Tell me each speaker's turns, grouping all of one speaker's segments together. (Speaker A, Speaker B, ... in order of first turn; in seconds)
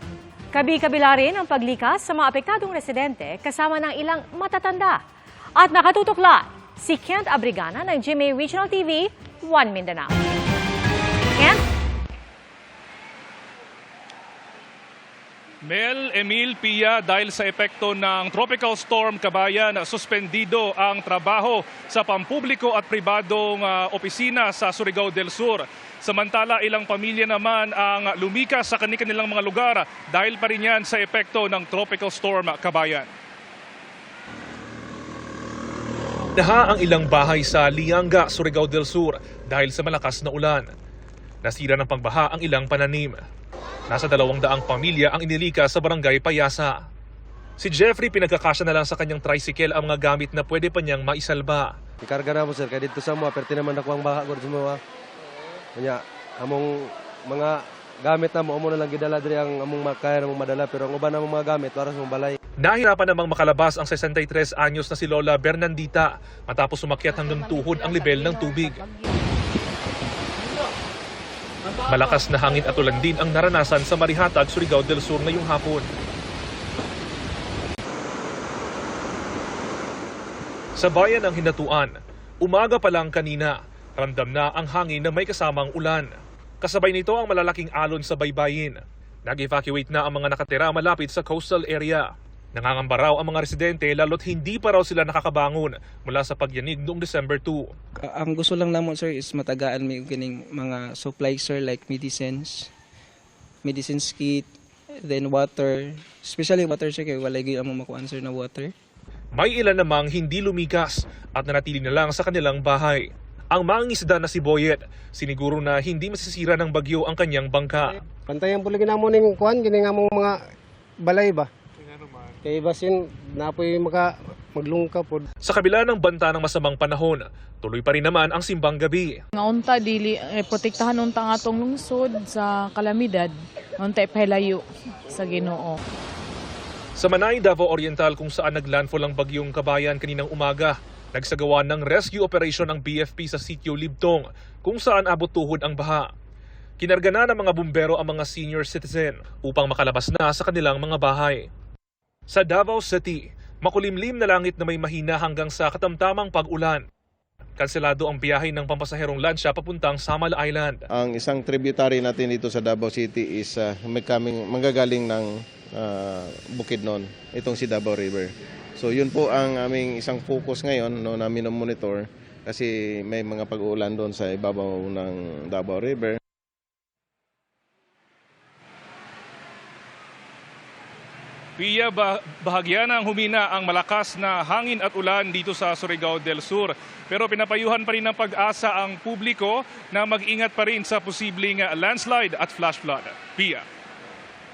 Speaker A: 0.5-5.0, 5.5-10.2
Speaker B: 15.6-33.1, 181.6-193.6
Speaker C: 36.4-40.6, 41.4-43.2, 43.9-46.7, 47.6-51.7, 62.6-68.8, 71.9-75.8, 80.8-97.7, 109.3-118.0, 125.4-129.1, 137.0-146.0, 146.8-151.4, 152.3-156.8, 157.6-160.8
Speaker D: 52.0-54.8, 55.8-56.7, 57.3-62.4
Speaker E: 67.1-69.1, 129.4-135.8
Speaker F: 98.0-102.7, 103.6-104.5, 105.0-108.7
Speaker G: 117.8-120.4, 121.0-121.5, 122.3-125.3
Speaker H: 160.9-176.2